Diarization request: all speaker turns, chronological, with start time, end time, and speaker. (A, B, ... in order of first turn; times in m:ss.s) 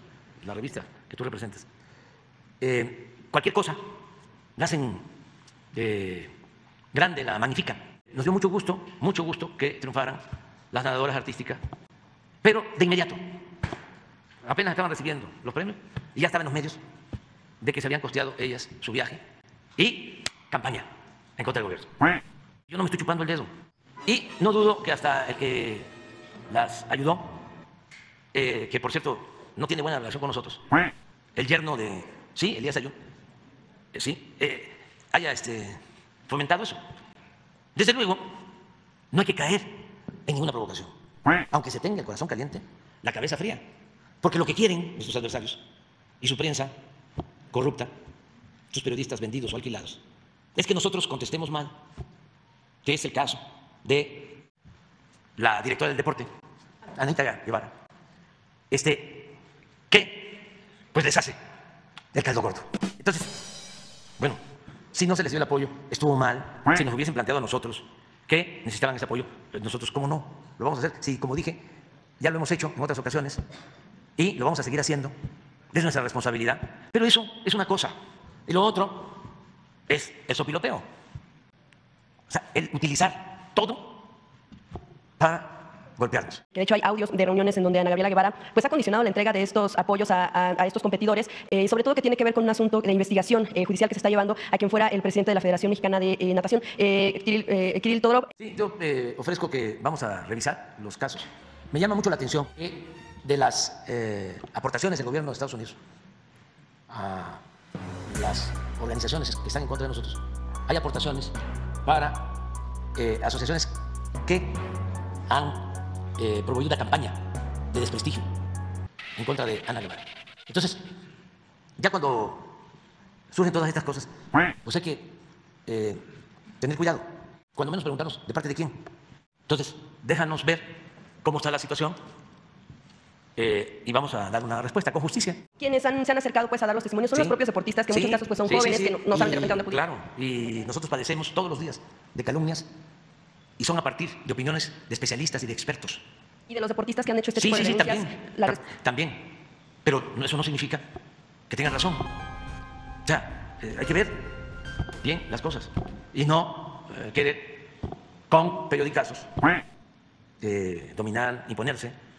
0:00.4-0:01.7 A
0:02.6-0:03.8 A
0:04.6-0:05.0 A
0:05.7-0:06.3 A
0:06.9-0:11.6 A
0:12.4-0:13.2 A
0:14.4-0:16.8 A
0:17.6-0:19.2 A
0:19.8-0:22.0 A
0:22.7-0:23.5 A
0:24.0-0:25.9 A
0:26.5-0:27.4 A
0:28.3-0:30.8 A
0:31.4-0:32.9 A
0:33.9-0:36.8 A
0:37.7-0:38.4 A
0:39.1-0:40.9 A
0:41.5-0:43.6 A
0:44.2-0:45.6 A
0:46.2-0:46.7 A
0:47.5-0:47.9 A
0:48.7-0:50.0 A
0:50.5-0:51.7 A
0:52.8-0:54.4 A
0:55.4-0:56.3 A
0:56.9-0:57.7 A
0:58.7-0:59.4 A
0:59.9-1:01.4 A
1:02.1-1:03.6 A
1:04.9-1:11.6 A
1:12.2-1:13.4 A
1:14.2-1:15.1 A
1:15.7-1:17.9 A
1:18.5-1:19.3 A
1:19.9-1:20.8 A
1:22.3-1:24.0 A
1:25.2-1:26.4 A
1:26.5-1:38.3 B
1:38.4-1:45.8 A
1:46.9-1:47.4 A
1:48.1-1:54.6 A
1:55.3-1:58.2 A
1:59.2-2:00.9 A
2:01.8-2:02.6 A
2:03.3-2:04.1 A
2:04.6-2:05.2 A
2:05.7-2:06.0 A
2:06.6-2:08.8 A
2:09.5-2:12.0 A
2:13.4-2:15.4 A
2:15.6-2:19.8 B
2:17.1-2:17.4 A
2:17.9-2:22.7 A
2:23.6-2:26.0 A
2:26.5-2:28.6 B
2:27.4-2:29.3 A
2:29.8-2:30.8 A
2:31.5-2:32.1 A
2:33.0-2:34.3 A
2:35.0-2:37.7 A
2:38.3-2:39.4 A
2:40.4-2:41.9 A